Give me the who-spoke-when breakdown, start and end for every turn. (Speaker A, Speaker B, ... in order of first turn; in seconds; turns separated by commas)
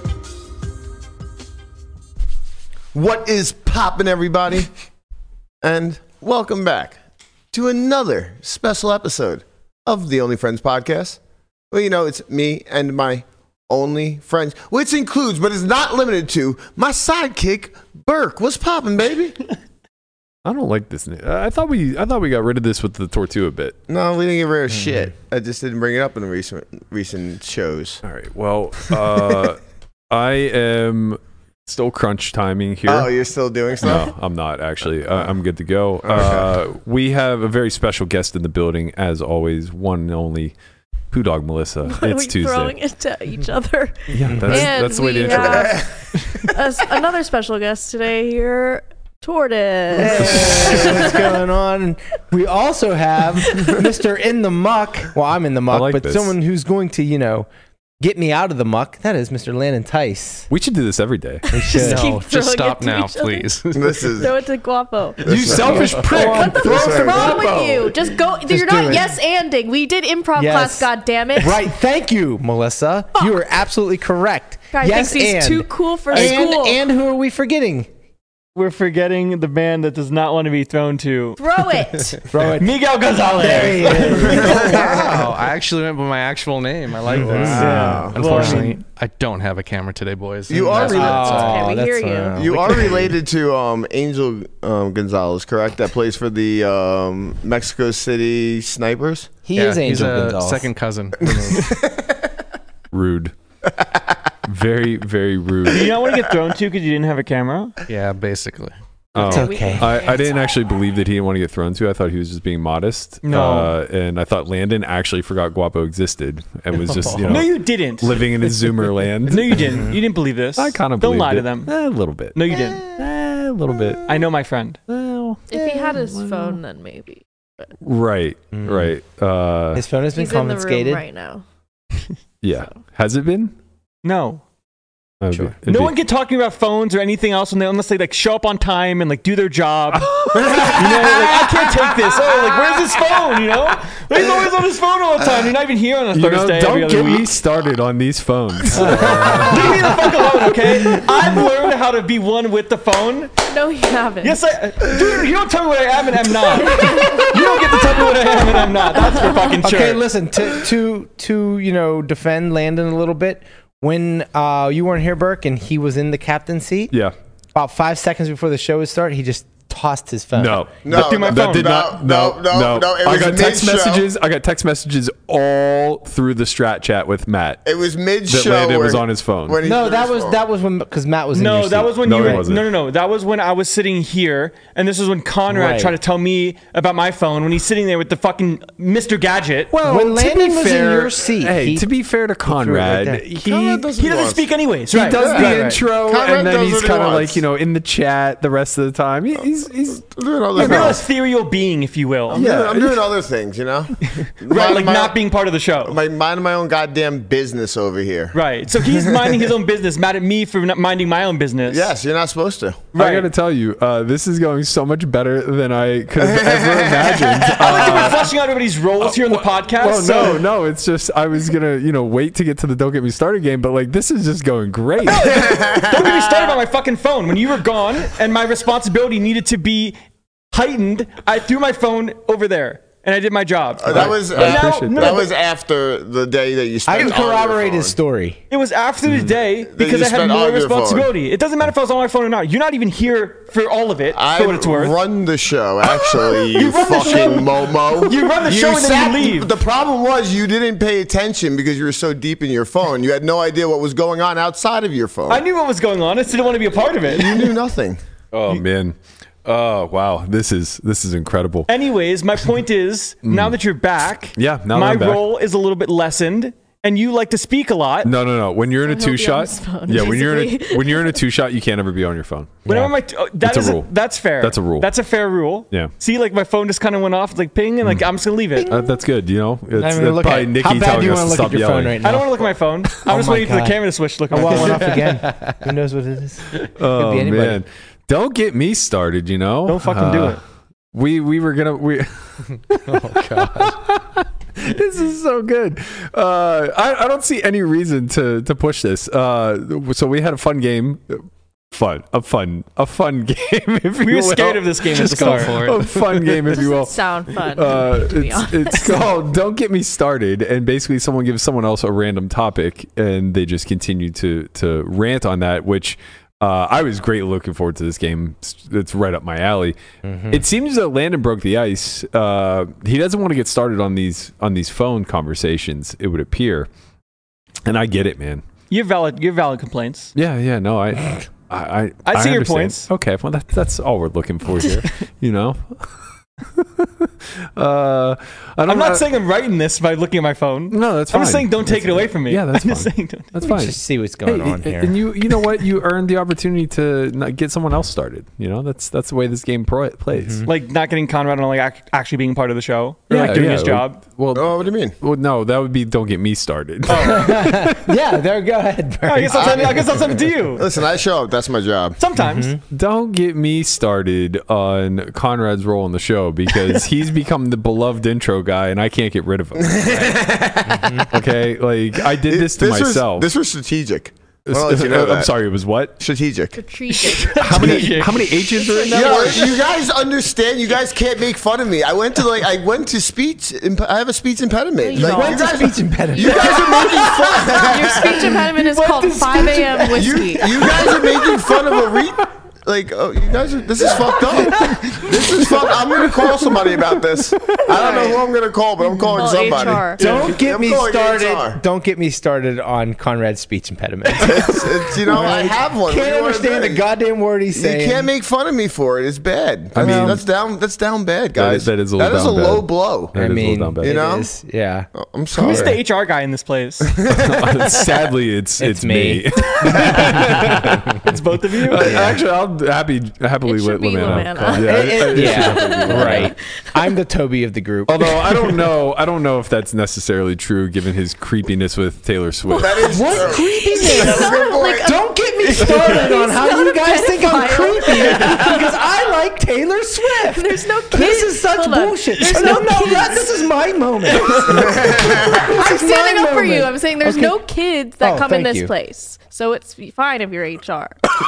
Speaker A: 2.9-4.7, Speaker A: 5.6-7.0, Speaker A: 7.5-11.2, Speaker A: 11.7-19.4, Speaker B: 20.4-23.8, Speaker A: 23.9-28.0, Speaker C: 24.7-25.1, Speaker B: 28.0-33.1, Speaker A: 28.8-29.3, Speaker A: 32.9-34.1, Speaker B: 33.8-40.5, Speaker A: 36.0-36.5, Speaker B: 41.1-42.7, Speaker D: 41.8-51.2, Speaker B: 44.1-45.8, Speaker C: 44.2-44.6, Speaker A: 45.3-46.4, Speaker C: 49.9-57.5, Speaker B: 50.3-50.6, Speaker B: 55.7-56.3, Speaker C: 58.0-60.5, Speaker B: 60.5-61.9, Speaker D: 61.5-65.2, Speaker C: 61.5-62.1, Speaker E: 61.8-63.9, Speaker A: 63.7-64.3, Speaker A: 65.2-65.9, Speaker B: 65.2-67.3, Speaker C: 65.5-69.1, Speaker D: 65.7-71.7, Speaker A: 66.7-67.3, Speaker C: 70.3-77.9, Speaker D: 74.7-76.8, Speaker F: 76.1-76.5, Speaker F: 78.5-81.4, Speaker D: 81.4-82.2, Speaker C: 82.3-82.7, Speaker F: 82.5-84.8, Speaker C: 83.3-85.3, Speaker A: 84.2-85.2, Speaker E: 84.7-91.6, Speaker C: 87.1-88.7, Speaker A: 87.2-88.5, Speaker F: 87.5-88.8, Speaker A: 90.5-91.6, Speaker C: 90.8-93.2, Speaker D: 91.1-92.4, Speaker A: 92.3-99.4, Speaker C: 99.4-100.7, Speaker E: 99.5-101.8, Speaker A: 101.2-102.1, Speaker B: 102.9-103.3, Speaker B: 104.5-106.0, Speaker F: 105.7-107.8, Speaker E: 107.9-108.7, Speaker B: 109.1-119.9, Speaker C: 109.2-110.0, Speaker D: 109.2-110.5, Speaker F: 113.2-113.7, Speaker F: 117.2-118.5, Speaker F: 119.3-121.7, Speaker B: 120.5-124.0, Speaker F: 122.3-122.9, Speaker F: 124.1-124.8, Speaker B: 124.9-126.6, Speaker D: 125.5-127.7, Speaker B: 127.8-129.8, Speaker C: 128.5-128.9, Speaker C: 129.7-131.0, Speaker D: 130.1-131.4, Speaker B: 132.4-133.5, Speaker F: 134.0-134.4, Speaker B: 135.2-135.9, Speaker F: 135.7-140.1, Speaker B: 139.9-141.3, Speaker F: 140.6-147.4, Speaker B: 146.1-150.1, Speaker F: 148.7-153.3, Speaker C: 148.8-149.7, Speaker D: 153.5-154.4, Speaker F: 154.2-160.0, Speaker D: 156.7-157.2, Speaker C: 159.6-166.9, Speaker C: 167.5-170.6, Speaker B: 170.3-177.6, Speaker A: 170.8-174.1, Speaker F: 170.9-171.8, Speaker A: 177.6-180.4, Speaker B: 178.3-179.6, Speaker C: 179.6-182.5, Speaker F: 181.3-189.7, Speaker B: 182.0-182.7, Speaker C: 185.5-185.9, Speaker B: 189.7-193.9, Speaker C: 189.8-191.9, Speaker C: 192.4-193.2, Speaker A: 193.3-194.4, Speaker F: 194.0-195.8, Speaker B: 194.9-200.0, Speaker A: 195.1-197.4, Speaker A: 199.9-201.0, Speaker B: 200.5-201.0, Speaker F: 200.5-202.4, Speaker A: 202.3-205.2, Speaker B: 202.3-203.1, Speaker F: 204.0-206.0, Speaker A: 205.8-209.3, Speaker F: 208.3-211.9, Speaker A: 211.7-212.9, Speaker F: 212.9-213.3, Speaker B: 212.9-218.3, Speaker A: 216.2-218.2, Speaker F: 217.6-220.4, Speaker B: 219.0-225.4, Speaker F: 225.0-230.0, Speaker A: 225.2-226.6, Speaker F: 230.5-235.3, Speaker A: 233.8-237.9, Speaker B: 233.9-235.2, Speaker C: 236.8-238.4, Speaker F: 238.5-245.0, Speaker B: 239.1-239.3, Speaker A: 239.7-241.1, Speaker A: 244.1-255.4, Speaker F: 245.9-249.5, Speaker B: 247.0-247.3, Speaker F: 255.3-257.5, Speaker A: 257.0-258.0, Speaker B: 258.3-261.7, Speaker F: 261.7-268.1, Speaker B: 263.2-263.6, Speaker B: 264.4-265.2, Speaker B: 268.0-272.9, Speaker D: 268.8-271.2, Speaker F: 272.6-278.7, Speaker B: 273.4-273.9, Speaker B: 274.4-274.9, Speaker B: 277.8-278.1, Speaker C: 278.6-279.0, Speaker B: 278.6-282.0, Speaker C: 279.7-282.4, Speaker F: 282.0-285.2, Speaker C: 283.0-283.8, Speaker C: 284.3-287.6, Speaker B: 284.4-284.6, Speaker B: 286.8-290.4, Speaker F: 289.6-290.4, Speaker B: 290.9-319.8, Speaker C: 292.9-293.7, Speaker F: 304.0-305.8, Speaker E: 304.9-306.2, Speaker D: 306.5-309.1, Speaker C: 320.0-320.4, Speaker B: 320.3-326.7, Speaker B: 327.6-328.4, Speaker F: 328.7-330.1, Speaker B: 330.1-335.9, Speaker F: 332.1-332.9, Speaker B: 336.5-339.1, Speaker F: 338.7-343.3, Speaker B: 340.7-350.5, Speaker C: 343.4-345.0, Speaker C: 350.1-350.4, Speaker F: 350.4-354.0, Speaker B: 353.1-357.9, Speaker A: 354.3-355.0, Speaker F: 356.9-357.3, Speaker C: 357.0-360.0, Speaker F: 359.1-360.6, Speaker A: 359.3-361.9, Speaker F: 362.0-362.5, Speaker C: 362.2-362.6, Speaker B: 362.7-370.3, Speaker A: 369.6-371.1, Speaker C: 370.7-371.1, Speaker B: 371.1-373.3, Speaker A: 372.0-375.3, Speaker B: 374.4-375.9, Speaker A: 376.0-376.6, Speaker D: 376.5-377.6, Speaker F: 376.9-378.3, Speaker B: 377.4-379.5, Speaker A: 377.6-377.9, Speaker D: 378.5-379.6, Speaker A: 378.9-388.4, Speaker D: 384.8-390.6, Speaker C: 384.9-388.1, Speaker F: 388.6-390.0, Speaker A: 389.9-401.6, Speaker C: 394.4-394.8, Speaker D: 397.7-398.2, Speaker D: 399.1-400.0, Speaker C: 399.9-408.1, Speaker F: 400.0-400.3, Speaker A: 404.2-406.8, Speaker A: 407.5-413.1, Speaker B: 409.7-410.2, Speaker C: 409.8-410.2, Speaker B: 411.3-414.0, Speaker C: 413.1-415.8, Speaker A: 413.8-414.3, Speaker A: 414.9-415.8, Speaker F: 415.3-416.9, Speaker A: 416.9-418.1, Speaker B: 417.1-426.3, Speaker C: 418.6-421.0, Speaker F: 421.0-422.0, Speaker C: 421.8-422.2, Speaker D: 423.4-426.4, Speaker C: 424.5-428.5, Speaker B: 427.9-433.2, Speaker D: 432.4-438.8, Speaker A: 432.6-436.0, Speaker C: 432.9-447.4, Speaker A: 438.0-438.5, Speaker D: 440.1-443.4, Speaker D: 444.2-451.0, Speaker A: 444.6-445.4, Speaker C: 448.0-448.7